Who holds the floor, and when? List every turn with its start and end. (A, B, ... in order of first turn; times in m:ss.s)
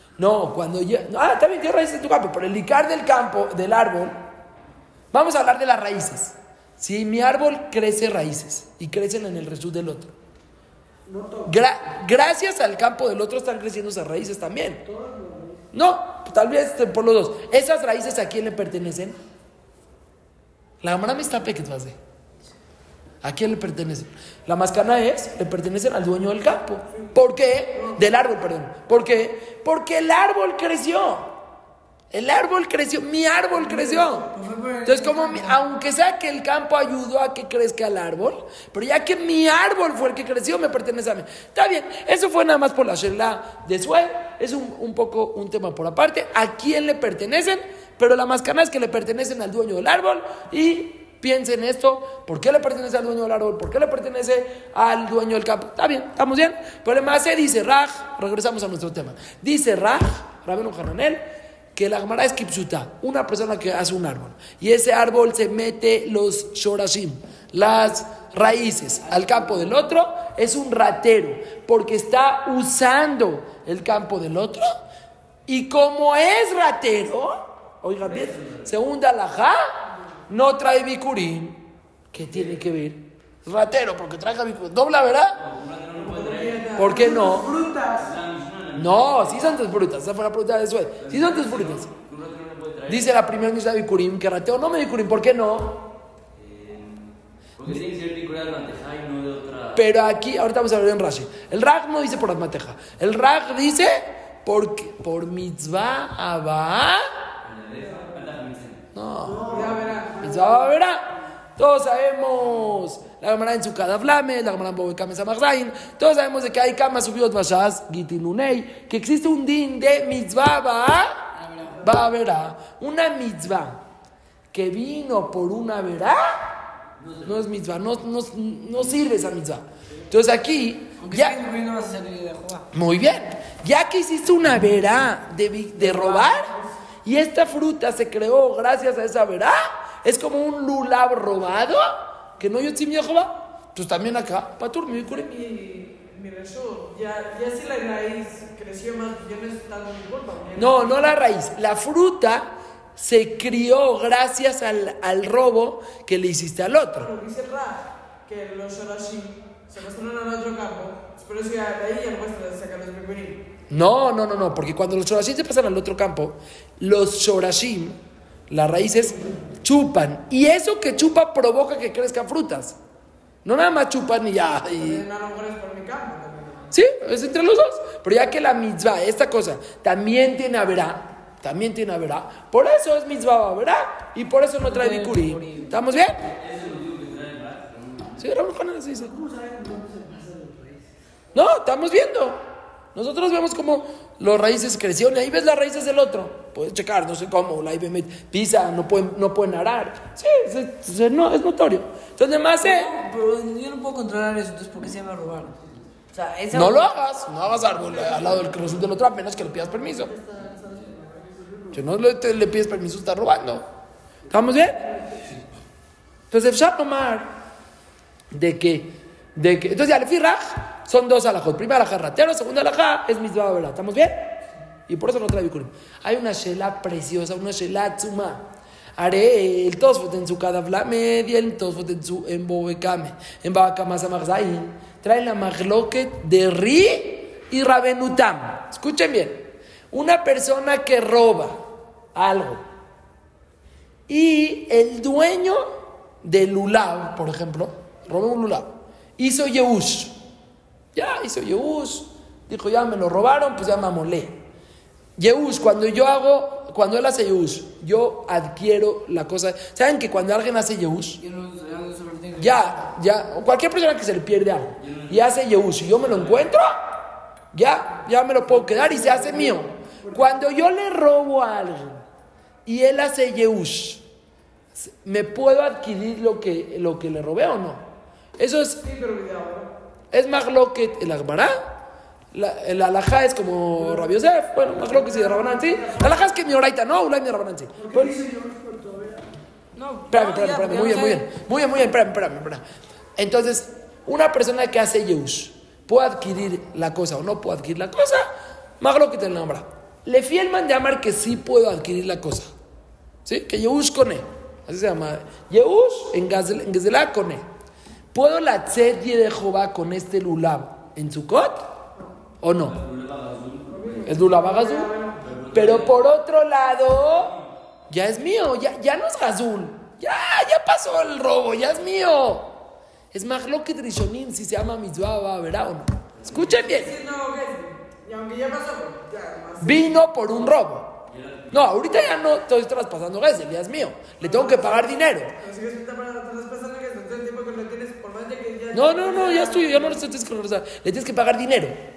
0:00.2-0:04.2 A
0:05.1-0:10.1 A
0:11.1-0:11.6 B
0:11.5-0:14.8 A
0:14.8-0:15.6 B
0:15.7-0:19.2 A
0:20.8-0:22.0 A
0:23.2-0:31.3 A
0:32.1-0:34.3 A
0:33.6-0:35.6 C
0:34.8-1:14.8 A
1:15.5-1:19.7 A
1:18.0-1:18.7 D
1:20.3-1:21.6 A
1:22.1-1:25.4 A
1:25.4-1:26.7 D
1:26.0-1:27.5 E
1:26.7-1:28.1 B
1:26.8-1:27.5 A
1:28.0-1:29.6 D
1:28.8-1:31.9 A
1:31.0-1:33.1 D
1:32.9-1:35.9 A
1:36.4-1:39.8 D
1:39.8-1:47.1 A
1:47.4-1:48.8 D
1:48.9-2:01.3 A
1:49.2-1:50.7 B
1:49.5-1:50.3 E
2:01.3-2:01.9 C
2:01.8-2:03.8 A
2:04.5-2:06.5 A
2:07.0-2:07.4 D
2:07.2-2:11.4 A
2:11.0-2:12.7 C
2:12.7-2:25.3 A
2:25.0-2:31.0 E
2:30.6-2:37.1 A
2:37.0-2:43.4 E
2:43.7-2:48.0 A
2:48.5-2:52.8 A
2:53.4-2:55.0 A
2:54.7-2:56.7 E
2:56.7-3:06.3 A
3:04.6-3:05.8 C
3:06.2-3:08.2 D
3:08.2-3:09.1 A
3:09.0-3:10.9 B
3:11.3-3:12.4 A
3:13.0-3:23.0 A
3:22.6-3:25.6 C
3:26.1-3:26.9 C
3:26.5-3:30.1 A
3:29.6-3:31.8 B
3:31.7-3:33.6 A
3:34.3-3:34.9 A
3:36.3-3:37.3 A
3:38.3-3:48.4 A
3:49.0-4:01.6 A
4:02.1-4:02.6 A
4:04.1-4:05.6 A
4:06.2-4:10.2 A
4:11.0-4:14.4 A
4:15.2-4:21.2 A
4:21.2-4:22.8 C
4:22.4-4:27.0 A
4:24.8-4:26.5 D
4:27.5-4:32.0 A
4:28.4-4:30.3 B
4:32.7-4:34.0 A
4:34.8-4:37.9 A
4:38.4-4:38.8 A
4:38.8-4:39.7 E
4:40.1-4:41.7 A
4:42.3-4:48.2 A
4:43.8-4:44.1 B
4:44.8-4:46.4 B
4:47.8-4:49.3 B
4:49.7-4:51.3 C
4:50.1-4:52.6 A
4:53.2-5:02.5 A
5:03.3-5:07.4 A
5:08.1-5:11.7 A
5:12.4-5:12.8 A
5:12.6-5:14.1 D
5:13.7-5:15.2 E
5:14.1-5:14.9 A
5:15.2-5:16.0 D
5:15.5-5:17.4 A
5:17.9-5:22.6 A
5:23.1-5:27.0 A
5:26.2-5:26.6 D
5:26.5-5:30.0 E
5:29.6-5:35.3 A
5:31.1-5:32.1 D
5:34.2-5:40.0 E
5:38.7-5:41.8 A